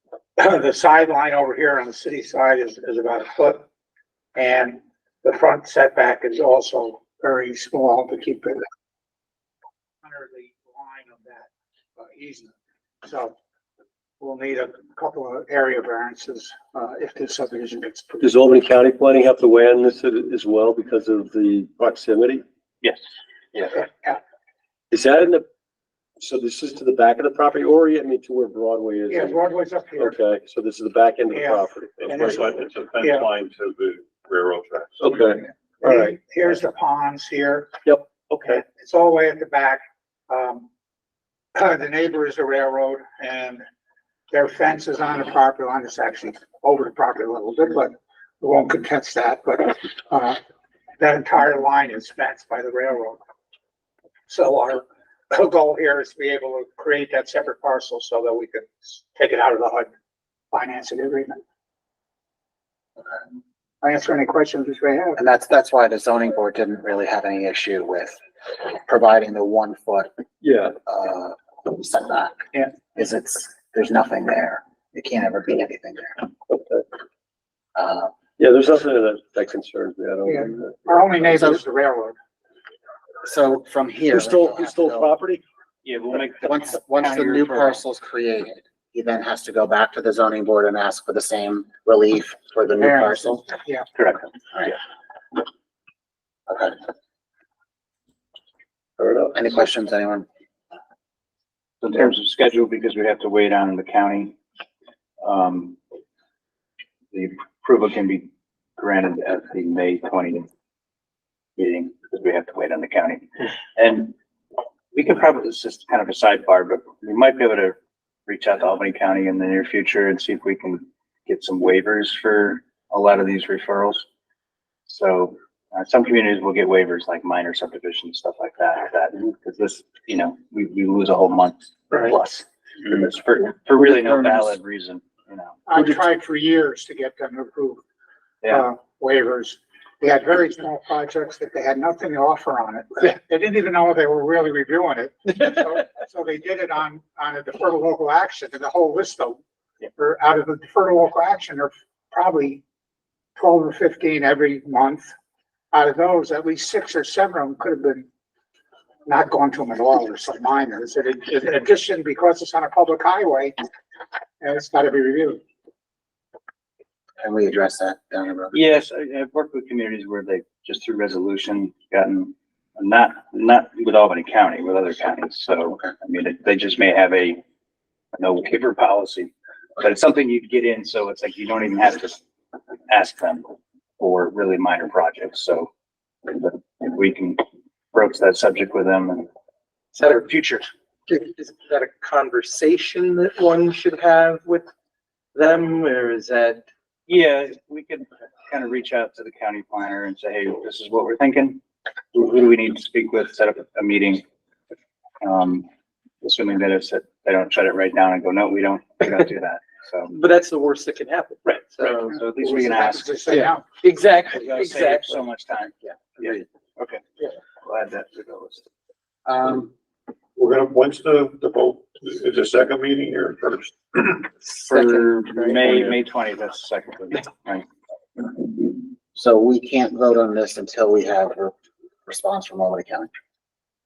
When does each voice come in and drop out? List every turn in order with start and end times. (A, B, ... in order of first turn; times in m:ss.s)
0:00.4-0:03.7 A
0:04.3-0:08.6 A
0:10.0-0:13.4 A
0:14.2-0:18.2 A
0:18.2-0:22.4 B
0:22.8-0:23.8 C
0:23.9-0:24.2 A
0:24.9-0:25.4 B
0:26.2-0:29.4 B
0:29.1-0:30.2 A
0:30.0-0:32.1 B
0:31.3-0:32.5 A
0:32.0-0:35.2 D
0:35.2-0:36.1 B
0:35.8-0:37.8 A
0:37.8-0:38.6 B
0:38.4-0:40.7 A
0:41.5-0:43.6 A
0:44.3-0:50.4 A
0:51.0-0:53.2 A
0:54.3-0:59.9 A
1:00.5-1:01.4 A
1:03.8-1:05.2 A
1:05.2-1:10.2 E
1:10.4-1:10.8 B
1:10.8-1:16.3 E
1:17.8-1:18.1 E
1:18.4-1:21.1 B
1:20.2-1:22.2 A
1:21.2-1:21.6 E
1:23.2-1:25.1 E
1:24.1-1:25.4 B
1:25.8-1:27.8 C
1:26.4-1:33.4 E
1:32.8-1:33.9 A
1:33.9-1:34.3 C
1:36.5-1:36.8 E
1:39.0-1:39.3 B
1:39.3-1:40.2 E
1:41.8-1:44.4 C
1:45.2-1:45.8 C
1:47.1-1:50.5 C
1:51.6-1:54.1 C
1:54.9-1:57.8 C
1:58.3-2:04.0 C
2:04.8-2:15.6 C
2:15.7-2:17.8 A
2:18.5-2:29.4 A
2:30.0-2:32.6 A
2:33.4-2:35.1 A
2:35.7-2:38.1 A
2:39.1-2:43.5 A
2:44.4-2:45.4 A
2:47.2-2:48.6 E
2:48.5-2:57.4 C
2:58.2-3:02.2 C
3:02.9-3:05.7 C
3:06.2-3:09.3 C
3:10.1-3:10.6 F
3:11.2-3:14.4 F
3:12.1-3:12.8 B
3:15.4-3:16.0 B
3:15.4-3:16.6 F
3:17.1-3:21.6 C
3:22.1-3:24.2 C
3:25.2-3:25.7 C
3:26.2-3:30.1 C
3:30.1-3:32.0 F
3:31.5-3:33.3 C
3:32.1-3:33.6 A
3:33.3-3:35.2 F
3:34.3-3:37.0 C
3:37.6-3:38.6 C
3:39.2-3:39.7 E
3:40.4-3:44.2 D
3:44.6-3:45.6 B
3:44.6-3:47.6 C
3:48.4-3:51.5 E
3:52.1-3:53.1 E